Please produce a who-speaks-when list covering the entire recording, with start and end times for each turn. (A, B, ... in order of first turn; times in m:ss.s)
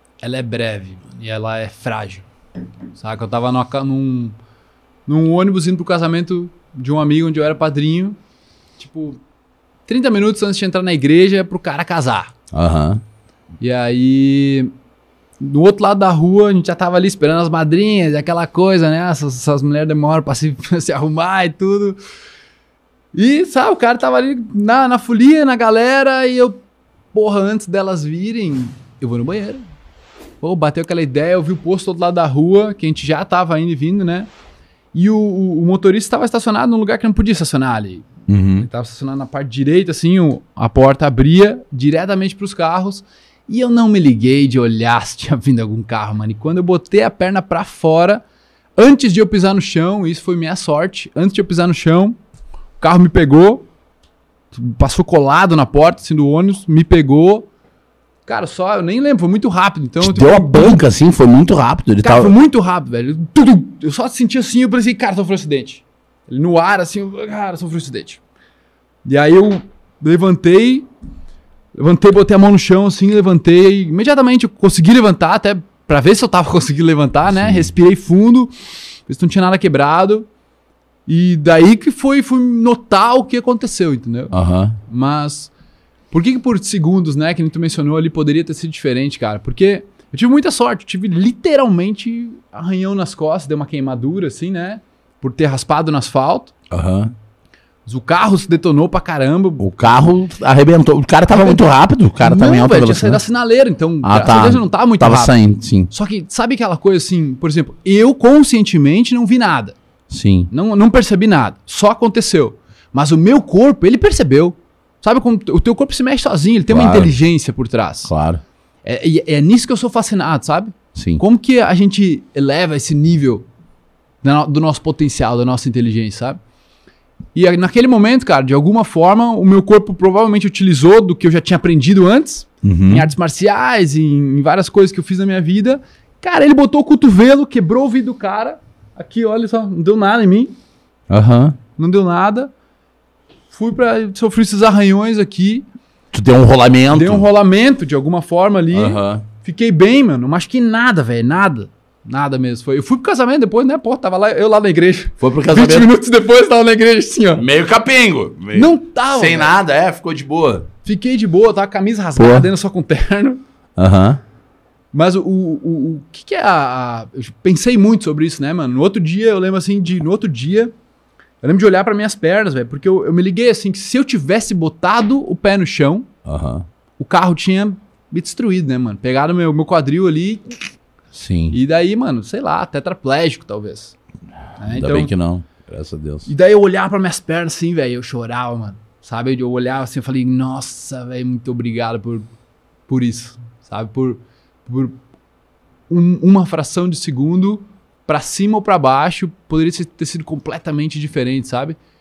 0:00.2-0:02.3 A
0:02.9-0:04.4 A
0:05.1-0:08.2 A
0:08.8-0:09.2 A
0:09.9-0:12.3 A
0:12.5-0:13.0 B
0:13.6-0:14.7 A
0:15.4-0:22.0 A
0:23.1-0:29.6 A
0:30.4-0:34.3 A
0:34.9-0:48.2 A
0:38.3-0:38.7 B
0:48.8-0:52.2 A
0:52.8-0:53.7 A
0:54.5-0:57.5 A
0:58.2-1:00.8 A
1:00.0-1:02.3 B
1:02.0-1:08.2 A
1:09.0-1:10.9 A
1:11.8-1:18.5 A
1:17.3-1:17.7 B
1:19.1-1:20.3 A
1:21.1-1:24.3 A
1:24.3-1:24.8 B
1:24.9-1:25.5 A
1:26.1-1:36.5 A
1:36.7-1:37.1 B
1:37.9-1:39.6 A
1:39.6-1:43.2 B
1:41.3-1:41.6 A
1:42.2-1:45.4 A
1:44.0-1:45.9 B
1:45.9-1:49.8 A
1:50.1-1:50.5 B
1:50.5-1:58.1 A
1:56.7-1:57.1 B
1:58.0-1:58.4 B
1:58.8-2:03.4 A
2:01.0-2:01.2 B
2:04.2-2:06.4 A
2:07.3-2:20.5 A
2:12.6-2:13.1 B
2:21.1-2:21.6 B
2:21.8-2:22.5 A
2:23.5-2:25.7 A
2:26.1-2:27.3 B
2:26.9-2:37.4 A
2:28.7-2:29.2 B
2:35.2-2:35.9 B
2:37.4-2:40.7 B
2:38.5-2:39.5 A
2:40.8-2:43.4 A
2:42.2-2:42.5 B
2:43.8-2:44.2 B
2:44.9-2:50.7 A
2:51.4-2:56.1 A
2:56.2-2:56.6 B
2:57.0-3:00.7 A
3:01.1-3:01.6 B
3:01.5-3:04.0 A
3:04.6-3:05.1 A
3:04.7-3:06.3 B
3:06.2-3:12.2 A
3:12.9-3:15.0 A
3:15.9-3:21.8 A